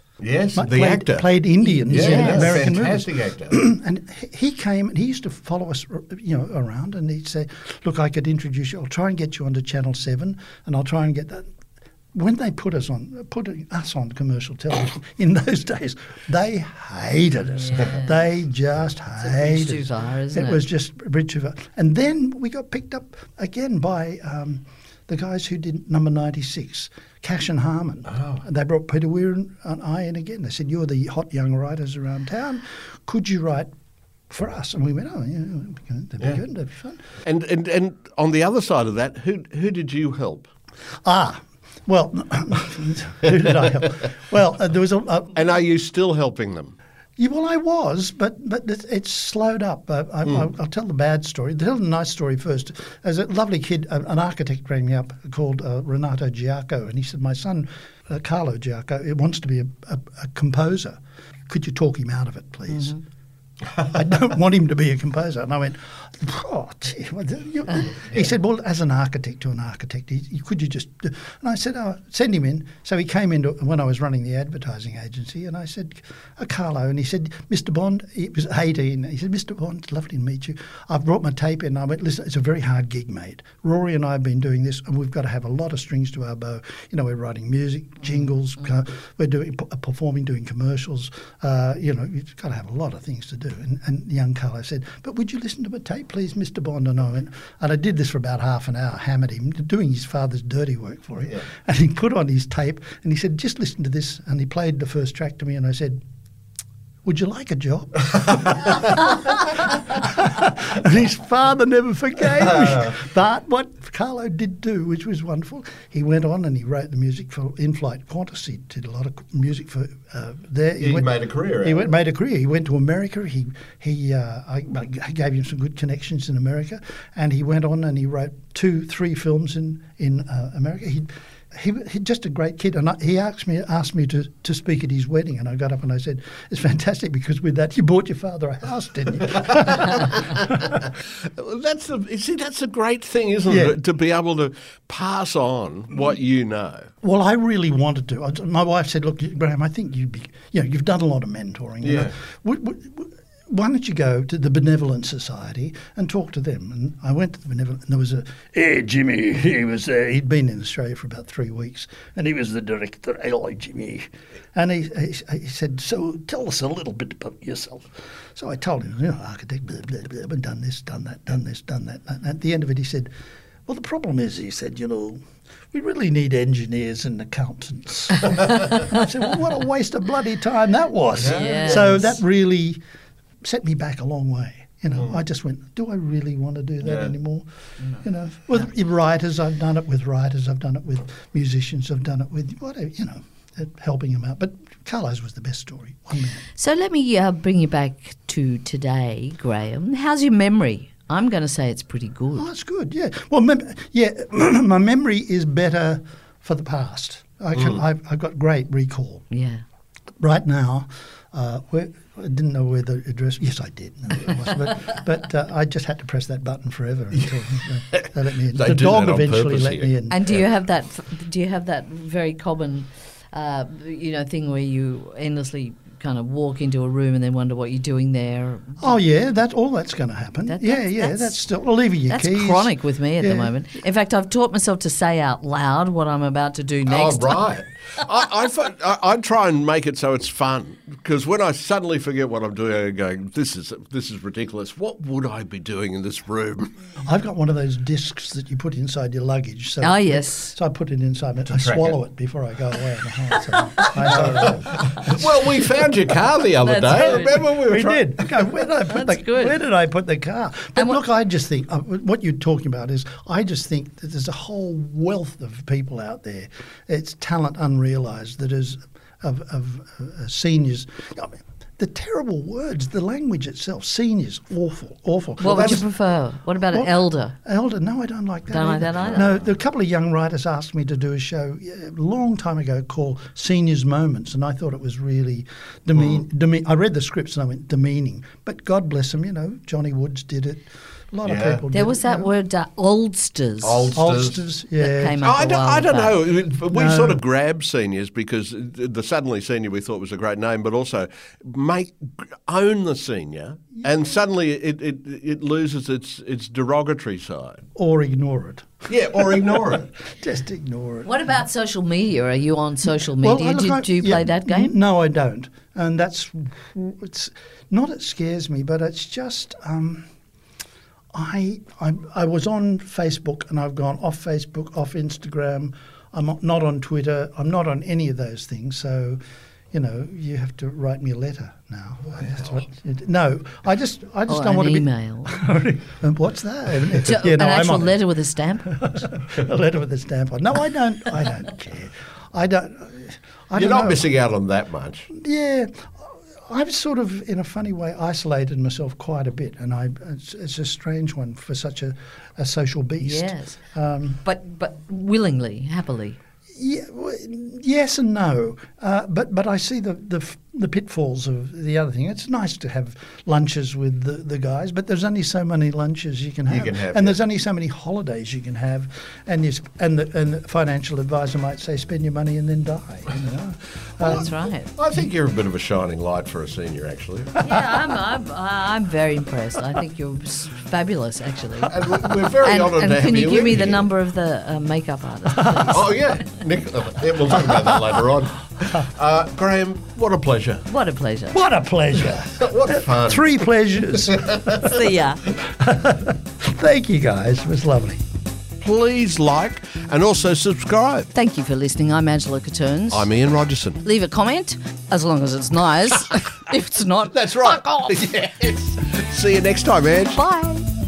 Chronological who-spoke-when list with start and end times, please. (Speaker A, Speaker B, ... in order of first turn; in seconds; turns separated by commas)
Speaker A: 0.2-1.3, Speaker B: 0.6-11.5, Speaker C: 1.6-2.7, Speaker A: 1.9-3.6, Speaker B: 12.1-33.7, Speaker C: 17.5-18.2, Speaker C: 19.2-20.6, Speaker A: 28.1-28.4, Speaker B: 34.3-37.0, Speaker A: 37.2-40.5, Speaker B: 41.0-45.4, Speaker A: 45.4-46.8, Speaker B: 47.2-63.0, Speaker C: 62.7-63.0, Speaker B: 63.8-106.0, Speaker B: 107.0-140.6, Speaker A: 112.6-112.9, Speaker A: 120.8-121.9, Speaker A: 139.6-146.9, Speaker B: 143.5-143.8, Speaker B: 147.0-173.1, Speaker A: 151.8-152.1, Speaker B: 173.7-182.8, Speaker A: 181.2-182.0, Speaker C: 181.2-182.2, Speaker B: 183.4-187.5, Speaker A: 186.8-187.1, Speaker B: 188.0-196.4, Speaker C: 196.6-202.5, Speaker B: 202.3-209.3, Speaker C: 209.3-209.6, Speaker B: 210.2-220.4, Speaker A: 217.9-220.4, Speaker C: 220.1-229.0, Speaker B: 228.8-233.5, Speaker C: 230.5-231.3, Speaker C: 232.1-238.0, Speaker A: 236.9-246.7, Speaker B: 247.0-255.6, Speaker C: 249.8-250.6, Speaker A: 251.5-252.0, Speaker A: 254.1-258.2, Speaker C: 256.6-257.5, Speaker B: 257.6-275.9, Speaker C: 258.9-259.6, Speaker C: 275.4-277.4, Speaker A: 275.5-275.8, Speaker B: 276.6-292.3, Speaker C: 278.5-279.3, Speaker A: 278.9-279.4, Speaker A: 291.2-291.6, Speaker C: 291.7-293.9, Speaker A: 293.6-294.4, Speaker B: 293.9-295.2, Speaker C: 294.8-296.2, Speaker A: 295.2-307.6, Speaker B: 296.7-297.2, Speaker B: 307.8-311.2, Speaker A: 308.9-309.9, Speaker C: 311.1-314.8, Speaker B: 312.9-320.1, Speaker B: 321.1-329.2, Speaker B: 329.7-338.0, Speaker C: 334.3-335.4, Speaker C: 337.0-338.8, Speaker B: 338.7-344.1, Speaker A: 343.5-345.1, Speaker B: 345.1-354.2, Speaker C: 353.0-353.6, Speaker C: 354.2-356.2, Speaker B: 356.5-374.3, Speaker A: 366.5-367.2, Speaker A: 374.0-377.4, Speaker C: 374.0-374.7, Speaker C: 377.4-386.2, Speaker A: 381.7-383.9, Speaker B: 385.4-385.8, Speaker A: 385.7-390.7, Speaker C: 390.7-391.4, Speaker B: 391.3-394.8, Speaker A: 392.1-394.6, Speaker C: 394.6-395.2, Speaker B: 395.3-398.0, Speaker A: 398.6-401.1, Speaker C: 401.1-403.1, Speaker A: 402.9-403.8, Speaker C: 403.8-408.0, Speaker A: 407.1-410.2, Speaker C: 410.1-410.7